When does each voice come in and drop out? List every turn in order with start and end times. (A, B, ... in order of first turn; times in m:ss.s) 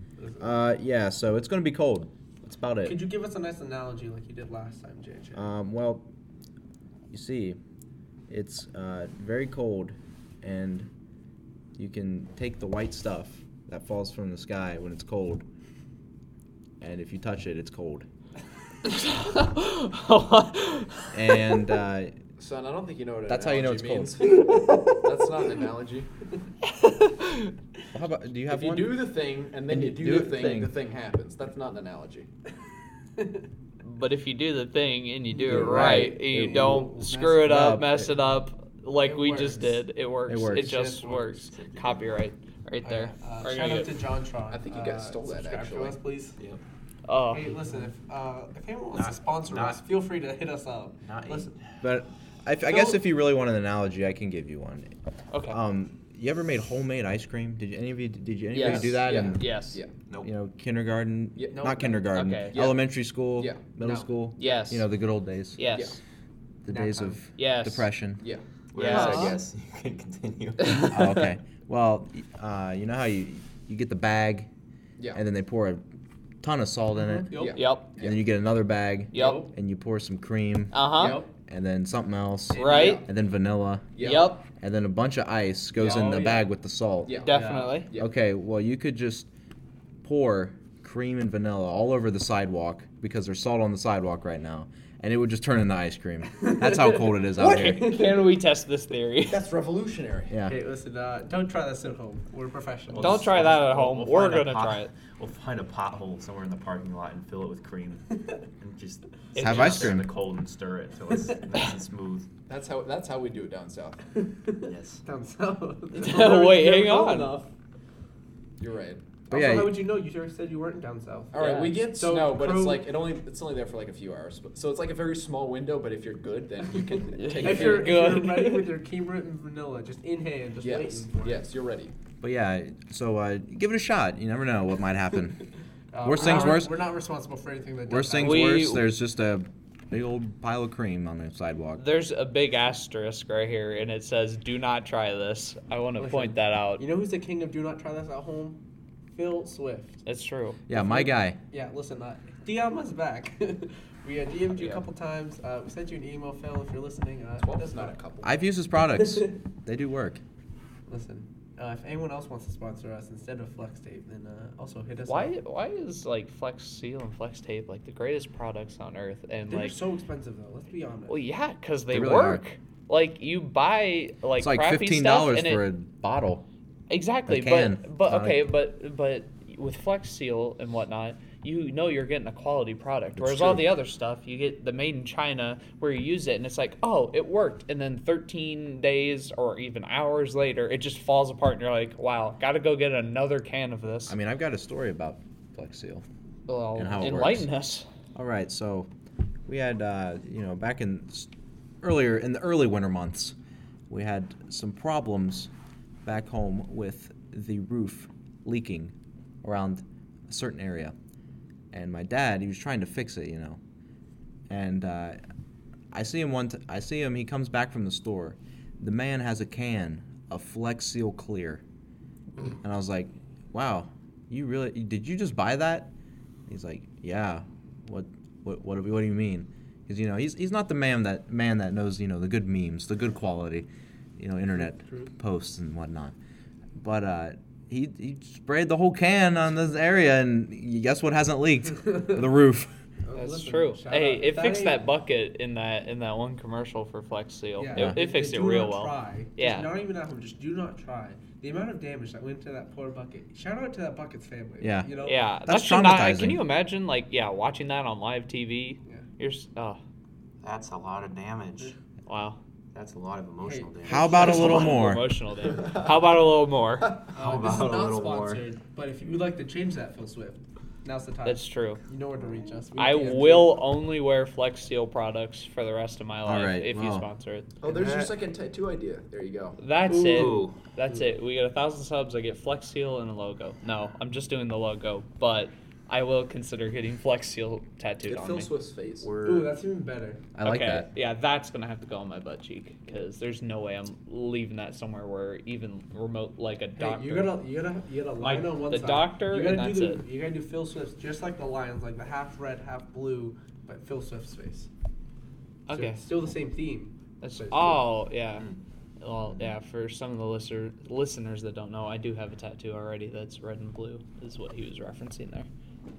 0:00.2-0:00.6 A
0:00.4-0:03.0 B
0:02.8-0:05.5 A
0:05.3-0:06.1 B
0:07.1-0:07.6 B
0:08.3-0:10.9 B
0:11.8-0:15.4 B
0:16.8-0:18.0 B
0:18.8-0:21.4 C
0:21.1-0:22.2 B
0:22.4-0:26.1 D
0:23.3-0:24.2 B
0:26.7-0:27.5 C
0:27.9-0:29.1 B
0:28.5-0:32.3 D
0:29.7-0:30.7 B
0:33.2-0:33.4 A
0:33.8-0:44.0 C
0:35.3-0:37.6 A
0:35.5-0:36.9 B
0:37.4-0:38.1 B
0:39.0-0:39.8 A
0:40.3-0:40.8 B
0:40.5-0:41.2 A
0:41.0-0:42.2 E
0:42.8-0:46.4 A
0:44.5-0:46.0 D
0:47.0-0:47.5 C
0:47.3-0:51.5 A
0:48.9-0:49.8 E
0:51.0-0:51.8 E
0:51.8-0:54.9 B
0:55.3-0:55.6 C
0:55.5-0:59.5 B
0:58.5-0:59.8 C
0:58.6-0:59.9 D
1:00.2-1:05.6 B
1:01.4-1:01.8 D
1:01.5-1:02.0 A
1:02.1-1:02.6 C
1:02.5-1:02.8 D
1:03.4-1:03.6 D
1:03.8-1:04.1 A
1:04.4-1:04.8 C
1:05.6-1:06.0 C
1:05.7-1:06.0 D
1:06.6-1:08.2 B
1:06.7-1:07.2 A
1:07.4-1:07.9 C
1:08.2-1:08.4 D
1:08.7-1:10.9 E
1:08.7-1:09.4 C
1:08.9-1:09.3 A
1:10.6-1:11.3 C
1:10.8-1:14.5 B
1:15.1-1:15.8 B
1:16.4-1:23.9 B
1:16.9-1:17.6 A
1:17.3-1:18.2 D
1:17.5-1:17.9 C
1:19.1-1:19.5 C
1:19.1-1:19.5 A
1:20.7-1:21.2 C
1:21.0-1:21.3 A
1:22.5-1:23.1 D
1:22.6-1:23.0 C
1:22.6-1:23.0 A
1:23.9-1:24.3 D
1:24.0-1:24.4 C
1:24.6-1:27.2 B
1:25.8-1:26.4 A
1:27.0-1:28.1 D
1:27.2-1:27.9 C
1:27.2-1:27.7 A
1:27.9-1:29.3 B
1:30.0-1:37.9 B
1:36.4-1:37.9 A
1:37.3-1:39.4 C
1:39.2-1:40.4 D
1:40.3-1:40.5 B
1:40.4-1:43.3 A
1:42.9-1:52.3 E
1:43.0-1:44.9 C
1:49.3-1:50.0 C
1:49.4-1:50.1 B
1:52.5-1:54.0 D
1:54.2-1:57.5 A
1:54.6-1:55.0 E
1:55.9-1:57.4 C
1:58.6-1:59.0 D
1:59.3-2:02.9 A
1:59.3-1:59.8 B
2:01.3-2:08.0 D
2:07.1-2:08.7 C
2:07.4-2:11.4 A
2:10.6-2:11.9 D
2:12.2-2:15.4 B
2:15.9-2:18.6 A
2:16.0-2:16.8 B
2:16.2-2:16.5 C
2:17.9-2:21.8 B
2:18.2-2:18.9 C
2:21.8-2:26.8 C
2:26.0-2:28.6 A
2:29.1-2:30.0 A
2:30.0-2:30.6 C
2:30.7-2:31.4 B
2:30.7-2:38.0 A
2:34.6-2:34.8 C
2:37.4-2:38.3 D
2:38.2-2:40.2 B
2:39.0-2:39.3 A
2:40.9-2:45.3 A
2:45.1-2:49.8 C
2:49.5-2:51.2 A
2:51.1-2:55.7 C
2:51.9-2:52.4 B
2:54.4-2:56.4 B
2:56.9-3:14.2 C
2:57.3-2:58.4 B
3:03.2-3:03.6 B
3:14.1-3:16.0 B
3:16.5-3:17.8 C
3:16.7-3:17.5 B
3:18.1-3:18.9 B
3:19.5-3:21.3 B
3:21.8-3:23.3 B
3:23.9-3:25.5 B
3:26.0-3:30.9 B
3:31.7-3:33.6 B
3:34.5-3:35.2 B
3:35.9-3:41.6 B
3:42.6-3:45.9 B
3:46.5-3:56.1 B
3:54.6-3:55.1 A
3:56.8-4:02.7 B
4:01.9-4:02.2 A
4:03.0-4:04.8 A
4:03.1-4:09.7 C
4:07.6-4:15.2 A
4:14.6-4:14.9 B
4:15.0-4:19.8 C
4:15.4-4:16.4 B
4:20.4-4:21.7 E
4:22.1-4:22.4 C
4:22.7-4:24.6 E
4:23.4-4:24.7 A
4:23.8-4:25.1 B
4:24.2-4:27.0 C
4:27.1-4:28.4 E
4:27.1-4:33.6 A
4:31.2-4:31.8 C
4:32.8-4:37.5 C
4:36.2-4:37.1 B
4:37.6-4:39.6 D
4:37.6-4:38.1 E
4:39.6-4:48.5 C
4:39.9-4:40.6 E
4:39.9-4:41.0 A
4:48.0-4:49.1 D
4:49.0-4:49.5 E
4:49.2-4:50.2 A
4:50.3-4:50.9 B
4:50.4-4:57.4 C
4:56.8-5:04.7 A
4:58.2-5:00.0 C
5:05.7-5:06.0 C
5:05.7-5:07.9 A
5:07.2-5:08.5 C
5:09.0-5:15.5 C